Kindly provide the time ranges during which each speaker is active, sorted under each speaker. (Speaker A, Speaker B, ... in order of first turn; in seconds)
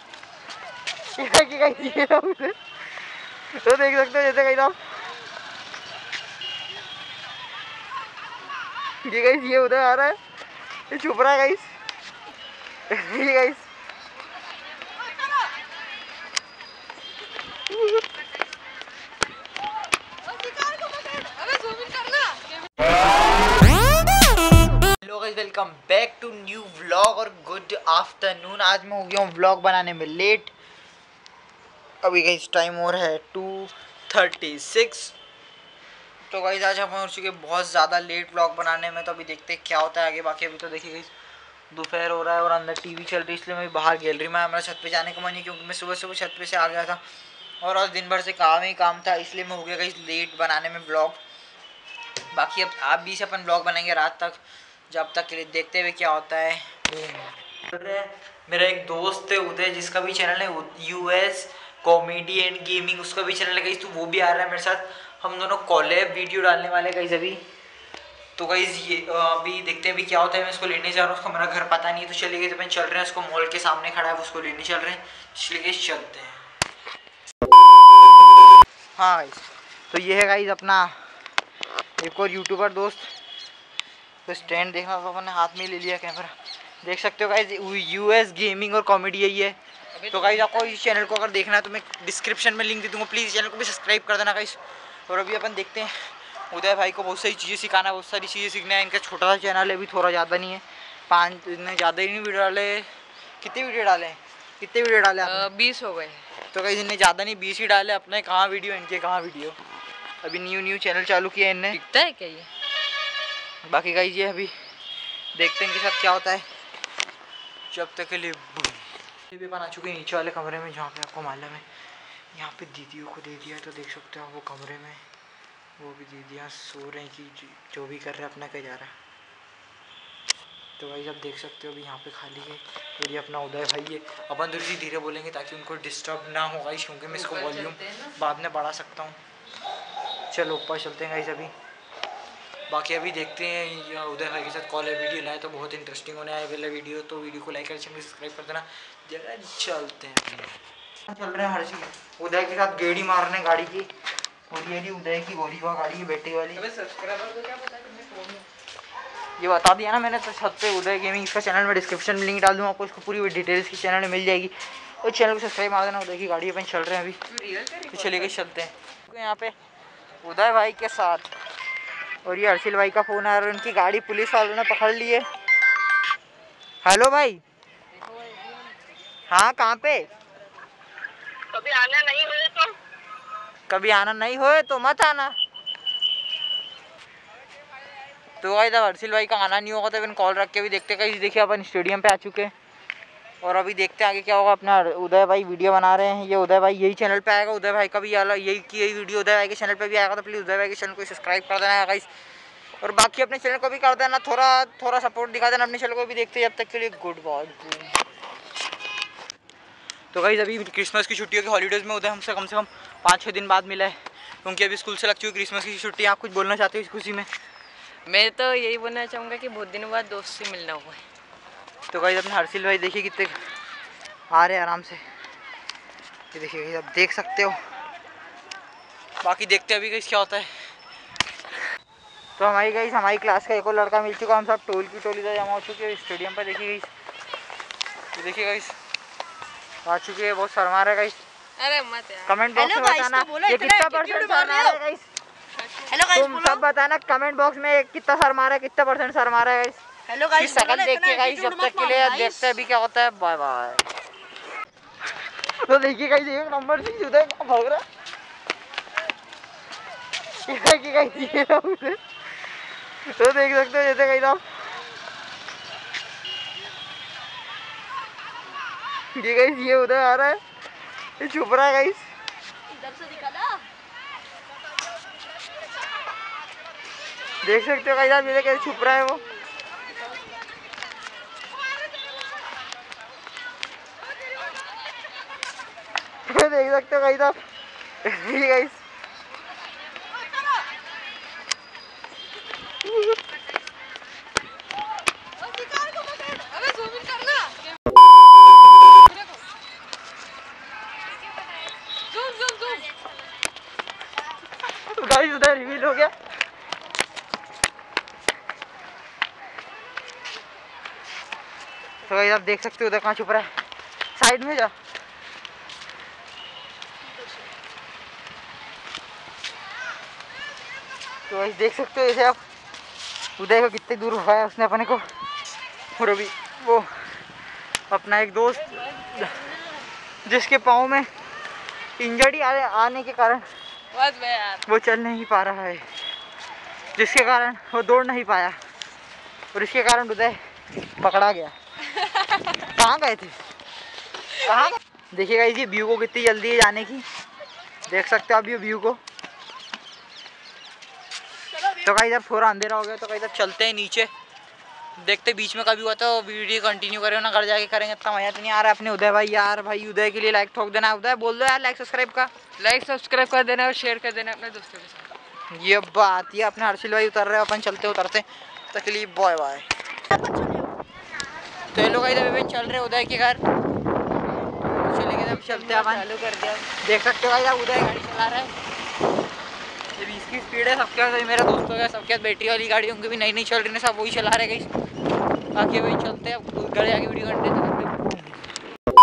Speaker A: 1.1-2.6, 3.5-4.8, 9.0-10.2, 10.9-11.7, 12.9-13.7, 25.0-30.5, 32.0-35.1, 36.3-41.1, 41.7-47.0, 47.6-51.2, 52.3-67.4, 68.4-76.4, 79.0-81.0, 82.0-83.1, 84.3-89.6, 90.1-102.9, 103.4-105.5, 106.5-109.6, 110.2-111.8, 113.6-114.5, 115.3-116.5, 117.7-121.6, 122.3-125.0, 125.8-128.9, 130.8-139.2, 140.3-141.5, 142.7-150.6, 151.1-153.9, 154.5-156.7, 159.4-167.2, 167.9-169.6, 170.2-171.3, 172.2-175.3, 176.8-177.4, 179.3-180.1, 183.7-185.3, 188.4-192.5, 193.4-202.1, 202.8-208.0, 210.1-217.3, 221.9-223.4, 224.3-225.0, 226.3-227.6, 229.2-230.5, 232.4-236.9, 238.1-238.8, 239.8-241.2, 242.3-245.1, 246.1-249.8, 250.3-253.9, 255.5-257.8, 260.4-262.0, 263.0-264.4, 269.1-270.4, 271.2-272.1, 277.4-279.2, 286.2-287.4, 288.0-288.8, 304.7-306.1, 312.0-313.5, 314.1-314.7, 321.3-322.4, 323.4-325.1, 326.0-327.1, 327.9-329.4, 330.2-331.1, 332.0-333.5, 334.7-335.9, 337.0-338.6, 339.5-340.4, 341.0-341.6, 342.5-343.4, 344.3-347.1, 347.9-349.0, 351.7-354.1, 355.0-362.3, 365.5-369.7, 371.7-373.4, 374.8-376.1, 376.8-378.5, 380.0-384.7, 385.6-388.5
Speaker B: 20.4-22.7, 90.0-90.6, 105.2-106.2, 111.7-112.5, 137.2-138.1, 156.6-158.4, 167.3-168.3, 178.0-178.7, 218.1-221.0, 241.6-242.4, 272.9-273.5, 295.6-297.7, 302.1-303.0, 333.9-334.6, 362.6-365.1, 375.3-376.7
Speaker C: 181.5-182.8, 242.5-244.8, 245.9-246.6, 250.1-252.5, 370.1-370.7